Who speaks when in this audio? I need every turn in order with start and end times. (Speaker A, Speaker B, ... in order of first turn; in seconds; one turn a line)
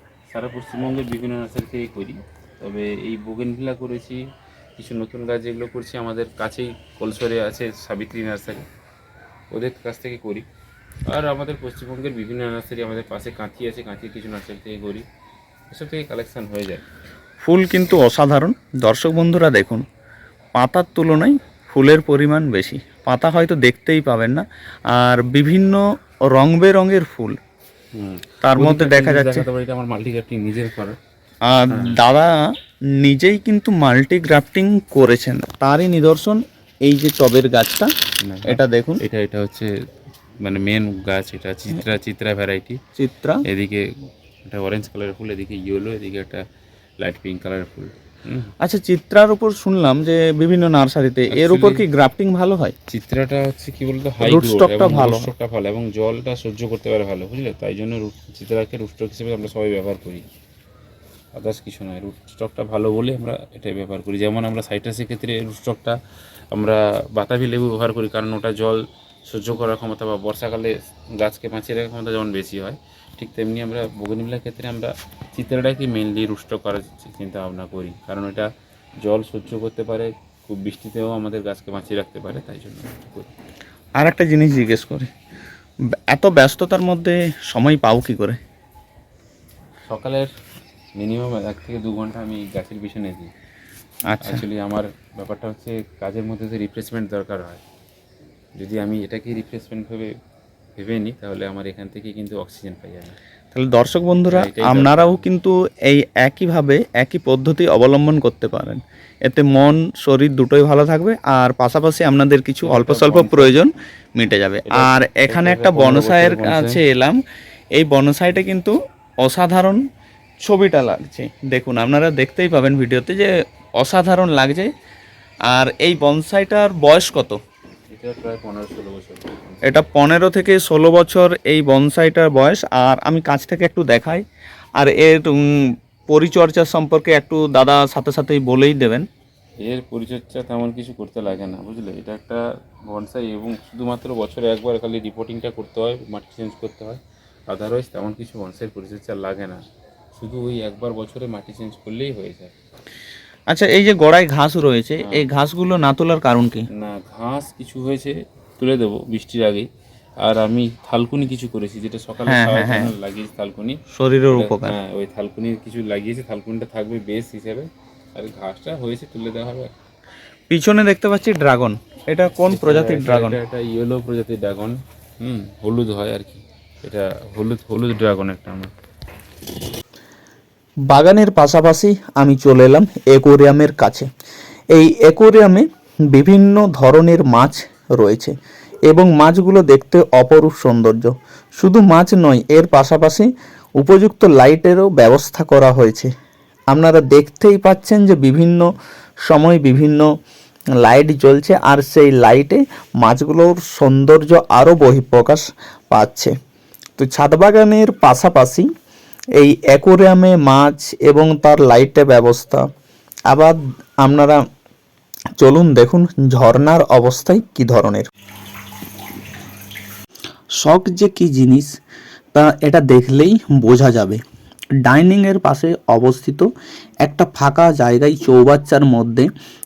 Speaker A: 0.3-4.2
Speaker A: 4.8-8.7
Speaker A: 9.5-10.4
Speaker A: 11.1-15.0
Speaker A: 15.7-16.8
Speaker B: 17.4-19.8
Speaker B: 20.6-25.8
Speaker B: 26.3-27.4
Speaker A: 27.9-31.0
Speaker B: 28.4-29.5
Speaker B: 31.5-32.4
Speaker B: 33.0-37.9
Speaker A: 38.2-39.7
Speaker B: 38.5-39.0
Speaker A: 40.4-42.8
Speaker B: 43.0-43.4
Speaker A: 43.4-46.4
Speaker A: 47.0-48.5
Speaker B: 48.6-52.7
Speaker A: 51.3-51.8
Speaker A: 52.9-60.2
Speaker B: 54.2-55.3
Speaker A: 61.4-66.0
Speaker A: 66.5-78.5
Speaker A: 79.0-83.3
Speaker B: 84.0-85.1
Speaker B: 86.1-88.4
Speaker A: 89.9-90.3
Speaker A: 91.0-93.3
Speaker B: 94.1-94.4
Speaker A: 94.2-97.6
Speaker A: 98.6-100.1
Speaker A: 100.8-103.2
Speaker B: 103.5-117.2
Speaker A: 104.3-105.2
Speaker A: 112.6-113.5
Speaker A: 114.7-116.8
Speaker B: 117.7-119.8
Speaker B: 120.4-124.7
Speaker B: 125.5-127.4
Speaker A: 127.9-129.8
Speaker B: 129.6-134.2
Speaker B: 134.8-135.5
Speaker B: 136.1-139.0
Speaker A: 139.6-149.6
Speaker A: 150.1-152.5
Speaker B: 153.5-156.7
Speaker A: 156.7-159.7
Speaker A: 160.2-163.8
Speaker B: 162.2-162.9
Speaker B: 163.9-164.8
Speaker A: 164.3-169.7
Speaker B: 170.5-173.4
Speaker A: 172.4-178.7
Speaker B: 180.9-184.1
Speaker B: 184.7-188.3
Speaker B: 188.9-193.3
Speaker B: 193.8-196.1
Speaker B: 196.7-198.6
Speaker B: 199.3-200.1
Speaker B: 200.8-206.3
Speaker B: 207.0-208.7
Speaker B: 209.4-212.6
Speaker B: 213.3-214.4
Speaker B: 215.4-218.1
Speaker B: 220.6-221.7
Speaker B: 222.3-224.2
Speaker B: 224.8-226.4
Speaker B: 227.0-229.3